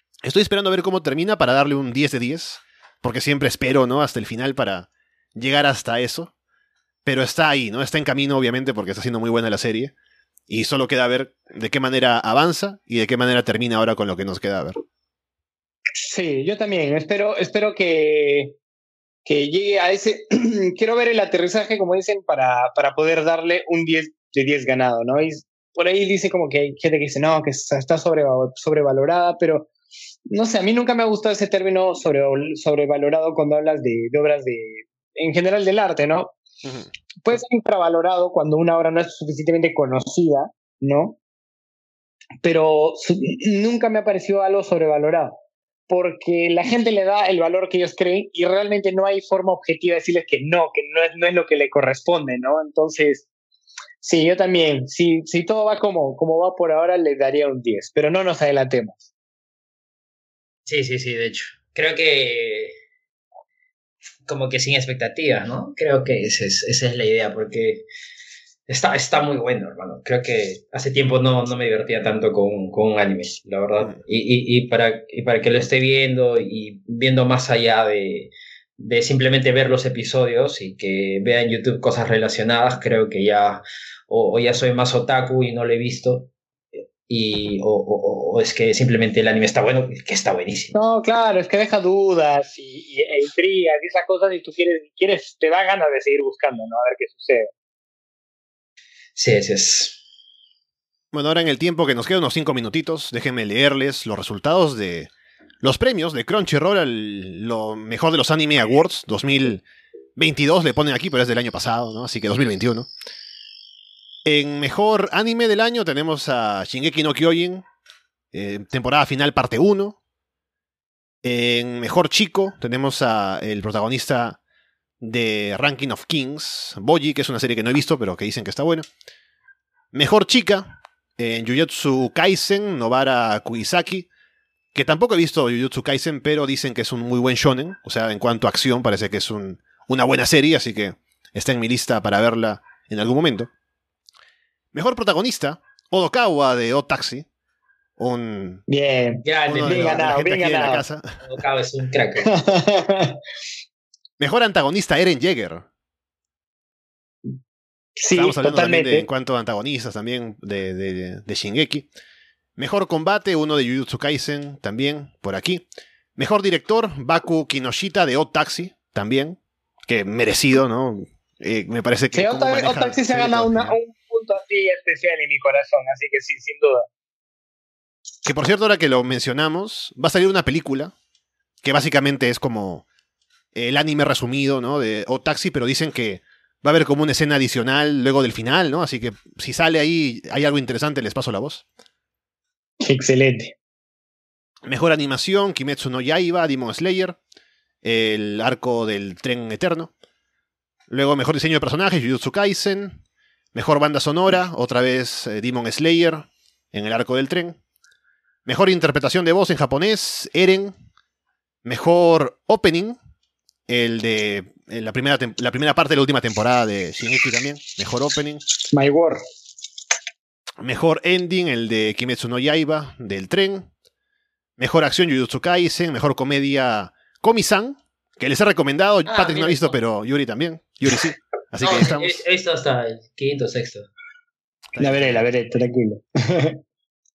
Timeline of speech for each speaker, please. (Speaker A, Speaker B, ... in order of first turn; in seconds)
Speaker A: 0.2-6.3, 7.0-9.9, 10.5-14.7, 101.1-105.1, 105.6-109.6, 110.2-112.9, 114.2-117.6, 118.3-120.0, 121.2-124.4, 125.0-128.8, 129.9-134.1, 134.7-143.5, 144.7-147.3, 148.0-148.6, 149.5-151.2, 154.2-155.7, 158.1-161.9, 162.6-165.6, 166.2-173.8, 178.2-180.9, 181.6-182.8, 183.5-191.6, 194.7-197.2, 197.8-199.9, 200.9-203.0, 203.5-207.6, 208.4-210.7, 211.6-213.0, 213.7-218.4, 220.6-223.7, 224.6-232.2, 234.7-235.2
Speaker B: 16.0-18.6, 19.2-29.7, 30.3-36.4, 37.2-41.2, 42.4-53.3, 54.0-59.0, 90.7-97.5, 148.7-150.8, 152.2-153.2, 158.0-159.1, 172.1-176.9, 192.8-193.6, 218.7-219.2, 234.8-236.6
Speaker C: 60.6-62.8, 64.2-67.8, 68.7-90.7, 99.2-100.0, 149.2-150.5, 151.2-152.3, 229.1-229.8, 231.6-233.9